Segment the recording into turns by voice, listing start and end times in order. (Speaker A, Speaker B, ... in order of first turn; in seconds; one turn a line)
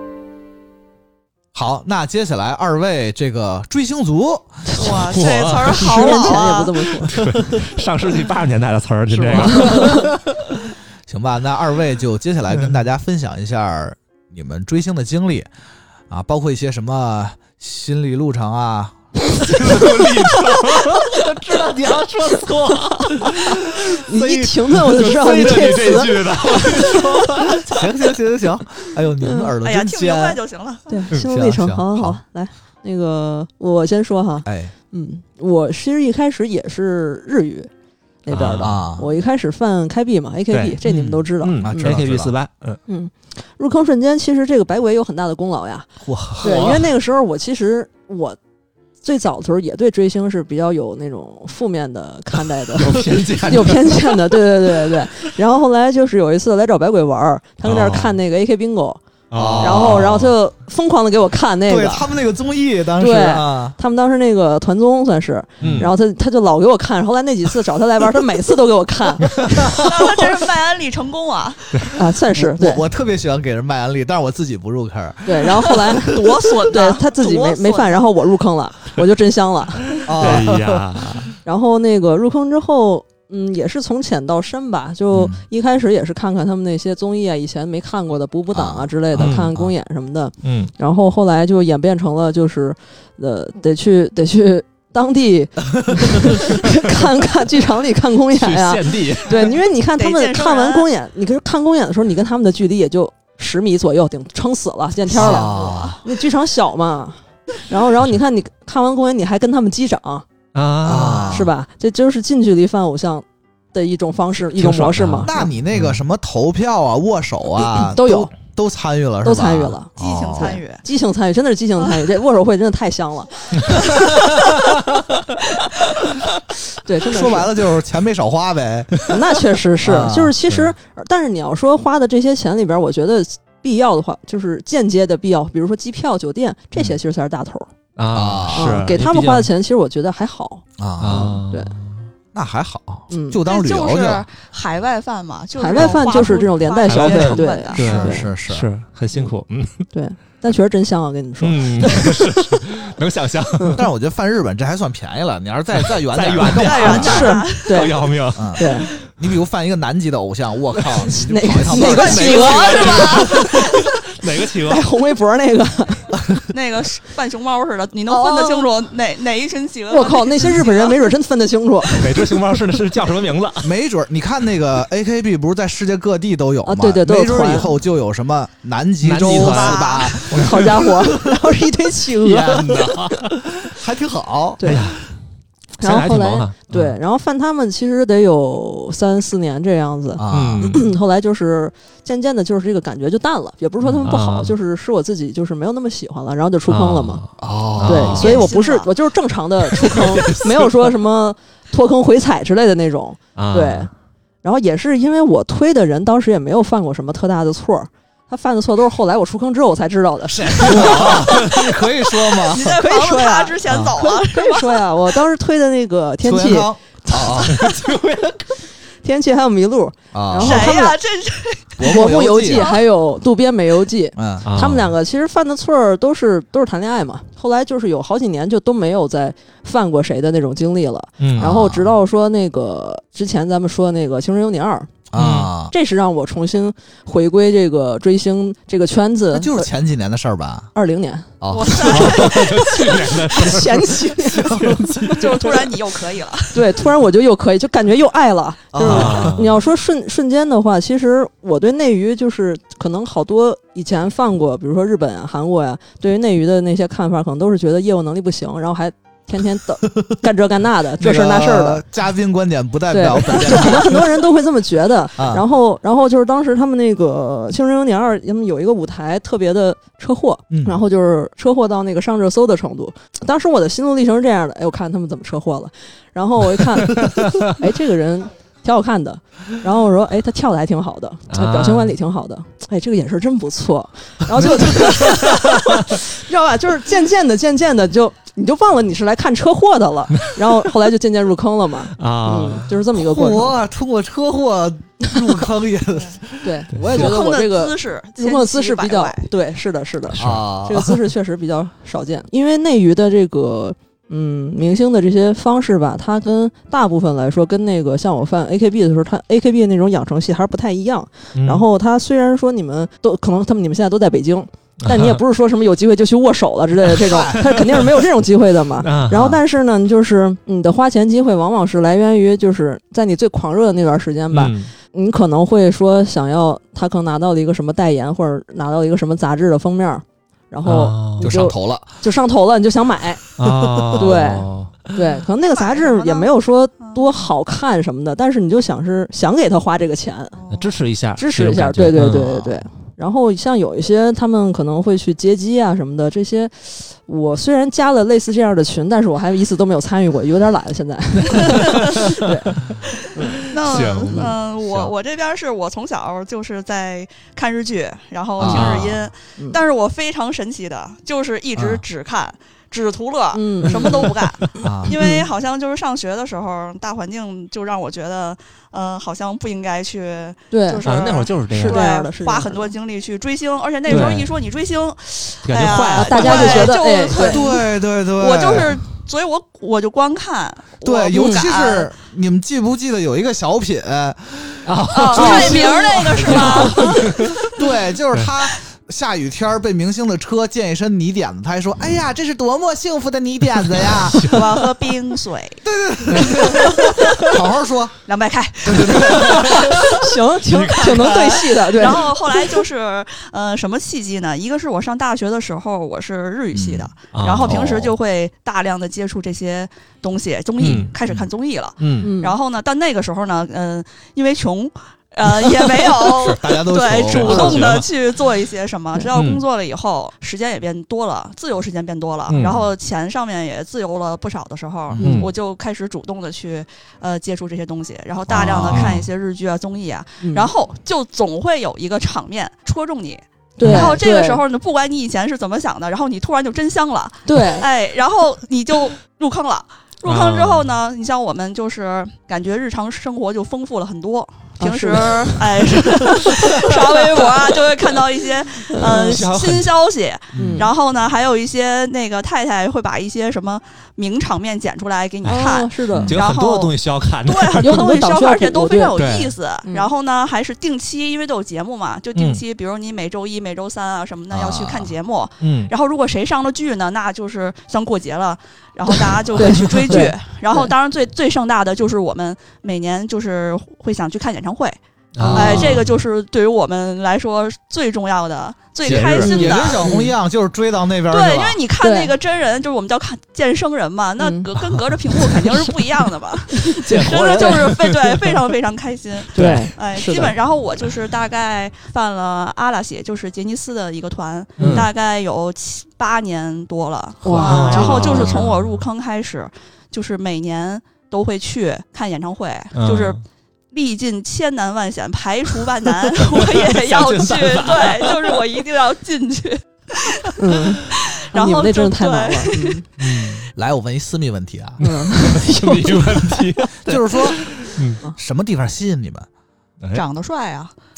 Speaker A: 1.5-4.9
Speaker B: 4.8-7.1
Speaker C: 4.8-6.4
Speaker D: 5.8-7.6
Speaker C: 7.0-10.2
Speaker D: 9.2-10.1
Speaker A: 9.3-10.0
Speaker A: 11.1-15.5
Speaker A: 16.1-18.9
Speaker C: 19.5-27.8
Speaker A: 19.5-19.9
Speaker D: 24.0-27.0
Speaker A: 27.5-30.4
Speaker D: 29.2-29.5
Speaker B: 29.6-31.0
Speaker D: 30.9-37.7
Speaker A: 31.1-32.2
Speaker A: 34.4-34.7
Speaker D: 38.2-42.0
Speaker C: 38.3-38.7
Speaker A: 38.6-39.1
Speaker C: 40.5-42.8
Speaker A: 41.6-42.3
Speaker D: 42.9-48.4
Speaker A: 46.0-46.8
Speaker C: 46.4-46.8
Speaker D: 49.0-59.0
Speaker C: 52.8-54.4
Speaker C: 57.6-58.2
Speaker C: 59.3-60.3
Speaker A: 59.3-60.2
Speaker D: 59.6-62.1
Speaker A: 61.7-63.8
Speaker D: 63.0-69.9
Speaker C: 65.6-65.9
Speaker A: 65.6-65.9
Speaker B: 69.8-71.9
Speaker D: 71.9-72.8
Speaker A: 72.3-75.8
Speaker D: 75.2-80.4
Speaker B: 75.9-78.1
Speaker A: 80.0-81.2
Speaker C: 80.2-81.3
Speaker D: 81.4-110.3
Speaker A: 85.1-85.4
Speaker A: 88.5-89.6
Speaker C: 89.1-89.6
Speaker C: 90.4-90.7
Speaker A: 95.9-96.4
Speaker C: 98.3-99.5
Speaker B: 99.9-100.9
Speaker A: 105.1-106.0
Speaker B: 105.1-106.0
Speaker C: 110.5-111.5
Speaker A: 110.8-111.5
Speaker D: 111.2-115.5
Speaker C: 114.6-116.0
Speaker A: 115.2-120.6
Speaker D: 117.7-118.3
Speaker D: 119.2-124.0
Speaker B: 120.0-120.8
Speaker D: 126.8-127.5
Speaker A: 127.0-129.1
Speaker D: 129.1-137.7
Speaker A: 129.8-130.3
Speaker C: 130.4-130.7
Speaker C: 137.9-139.5
Speaker A: 138.1-138.9
Speaker D: 138.5-141.7
Speaker A: 140.8-141.4
Speaker C: 141.0-142.1
Speaker A: 142.3-144.2
Speaker D: 143.1-143.4
Speaker B: 143.4-148.1
Speaker D: 145.6-148.3
Speaker C: 146.9-149.8
Speaker A: 147.7-148.7
Speaker D: 149.9-152.6
Speaker C: 151.4-153.8
Speaker D: 153.6-153.8
Speaker A: 153.7-157.3
Speaker C: 155.9-158.8
Speaker B: 156.4-158.0
Speaker D: 156.8-158.9
Speaker A: 158.3-163.1
Speaker D: 161.0-163.7
Speaker C: 161.7-164.8
Speaker B: 161.8-163.7
Speaker D: 164.7-166.2
Speaker B: 166.5-171.0
Speaker D: 168.1-168.7
Speaker D: 169.9-172.4
Speaker C: 171.9-173.7
Speaker A: 173.6-181.4
Speaker D: 176.6-177.7
Speaker C: 179.0-180.8
Speaker B: 179.2-180.2
Speaker D: 180.3-182.8
Speaker A: 182.2-182.9
Speaker C: 182.4-183.3
Speaker A: 183.7-184.8
Speaker D: 184.6-184.8
Speaker C: 184.6-185.1
Speaker D: 185.8-197.2
Speaker C: 185.8-187.0
Speaker A: 190.2-190.8
Speaker C: 190.3-190.8
Speaker C: 194.0-194.5
Speaker C: 196.7-198.5
Speaker A: 197.4-198.5
Speaker D: 197.8-203.9
Speaker B: 198.0-198.9
Speaker C: 199.7-200.9
Speaker C: 203.3-203.9
Speaker D: 204.4-211.3
Speaker A: 210.3-212.8
Speaker C: 210.7-211.5
Speaker B: 212.3-214.9
Speaker D: 212.6-218.5
Speaker A: 216.2-217.5
Speaker C: 217.5-218.0
Speaker D: 219.0-221.0
Speaker A: 220.1-220.8
Speaker B: 220.4-222.8
Speaker A: 221.8-222.7
Speaker D: 221.8-234.9
Speaker A: 224.2-224.5
Speaker C: 224.4-224.9
Speaker C: 231.2-231.5
Speaker A: 231.3-231.9
Speaker A: 235.1-235.7
Speaker C: 235.2-235.5
Speaker D: 235.7-239.7
Speaker A: 239.3-240.7
Speaker D: 240.7-244.8
Speaker A: 241.4-242.3
Speaker B: 241.5-243.2
Speaker C: 241.9-245.5
Speaker A: 244.4-245.4
Speaker B: 245.1-246.6
Speaker D: 246.5-261.8
Speaker A: 248.7-249.4
Speaker C: 248.8-249.5
Speaker A: 261.0-264.1
Speaker D: 262.9-293.5
Speaker A: 265.2-265.4
Speaker A: 270.5-270.8
Speaker C: 281.3-281.9
Speaker C: 284.6-285.1
Speaker C: 292.0-292.7
Speaker A: 292.9-297.2
Speaker D: 296.4-333.3
Speaker B: 296.9-299.3
Speaker C: 300.1-300.4
Speaker A: 300.2-301.0
Speaker C: 311.3-311.6
Speaker C: 314.9-315.2
Speaker A: 316.9-317.9
Speaker C: 318.8-319.4
Speaker C: 324.3-324.7
Speaker C: 330.6-331.3
Speaker A: 331.2-331.9
Speaker C: 333.4-334.8
Speaker A: 333.4-334.0
Speaker D: 333.9-340.4
Speaker B: 335.4-337.2
Speaker B: 340.3-340.7
Speaker C: 340.5-342.5
Speaker D: 341.2-352.6
Speaker C: 351.3-354.9
Speaker B: 351.5-352.1
Speaker B: 353.0-381.9
Speaker D: 354.1-354.3
Speaker A: 358.4-358.9
Speaker C: 358.4-358.9
Speaker A: 361.5-361.8
Speaker D: 363.3-364.1
Speaker A: 364.6-364.9
Speaker D: 364.9-365.3
Speaker D: 370.5-370.9
Speaker C: 370.8-371.8
Speaker D: 371.5-372.7
Speaker D: 373.9-374.2
Speaker C: 373.9-374.3
Speaker C: 375.4-376.8
Speaker D: 375.8-377.4
Speaker A: 377.1-378.8
Speaker A: 380.8-394.5
Speaker D: 381.1-381.5
Speaker C: 384.6-387.4
Speaker B: 384.9-387.4
Speaker D: 385.1-386.9
Speaker C: 393.8-394.4
Speaker B: 394.2-395.6
Speaker A: 395.6-397.9
Speaker C: 396.1-397.3
Speaker B: 398.1-400.0
Speaker A: 398.6-399.8
Speaker C: 399.2-399.7
Speaker D: 399.9-402.3
Speaker C: 400.5-401.6
Speaker B: 400.9-474.8
Speaker A: 406.5-406.9
Speaker C: 407.1-407.8
Speaker A: 407.5-407.9
Speaker C: 410.6-410.9
Speaker C: 411.8-412.1
Speaker D: 412.0-412.3
Speaker A: 415.9-417.8
Speaker C: 417.1-417.9
Speaker D: 417.3-417.6
Speaker C: 419.1-419.4
Speaker C: 422.3-422.6
Speaker D: 425.0-425.3
Speaker C: 425.0-425.3
Speaker A: 428.3-429.0
Speaker C: 428.6-429.0
Speaker D: 430.2-430.5
Speaker D: 433.6-434.4
Speaker C: 433.6-433.9
Speaker D: 437.2-437.7
Speaker C: 440.0-440.7
Speaker D: 444.6-446.3
Speaker D: 448.7-449.2
Speaker C: 448.8-449.7
Speaker A: 450.3-450.7
Speaker D: 450.4-450.7
Speaker C: 455.2-457.9
Speaker D: 455.2-456.1
Speaker D: 457.6-458.9
Speaker C: 458.9-459.3
Speaker D: 459.6-459.9
Speaker C: 462.1-462.4
Speaker A: 464.3-464.9
Speaker C: 465.4-465.7
Speaker D: 469.3-470.7
Speaker C: 469.6-470.0
Speaker C: 475.1-475.8
Speaker D: 475.2-475.8
Speaker B: 475.3-479.8
Speaker A: 478.8-481.6
Speaker C: 478.9-479.2
Speaker D: 479.2-480.1
Speaker B: 481.1-503.2
Speaker D: 481.8-482.1
Speaker D: 484.2-484.5
Speaker D: 486.5-487.7
Speaker C: 486.7-488.1
Speaker D: 489.3-490.3
Speaker C: 489.3-489.7
Speaker D: 494.6-494.9
Speaker C: 494.6-494.9
Speaker D: 497.2-498.4
Speaker C: 497.3-498.8
Speaker C: 502.7-503.2
Speaker B: 503.7-513.1
Speaker C: 506.4-508.4
Speaker D: 510.4-512.8
Speaker C: 513.0-513.5
Speaker A: 513.5-515.4
Speaker D: 514.8-516.4
Speaker C: 514.8-518.0
Speaker A: 516.8-517.5
Speaker A: 518.1-519.3
Speaker B: 519.9-520.7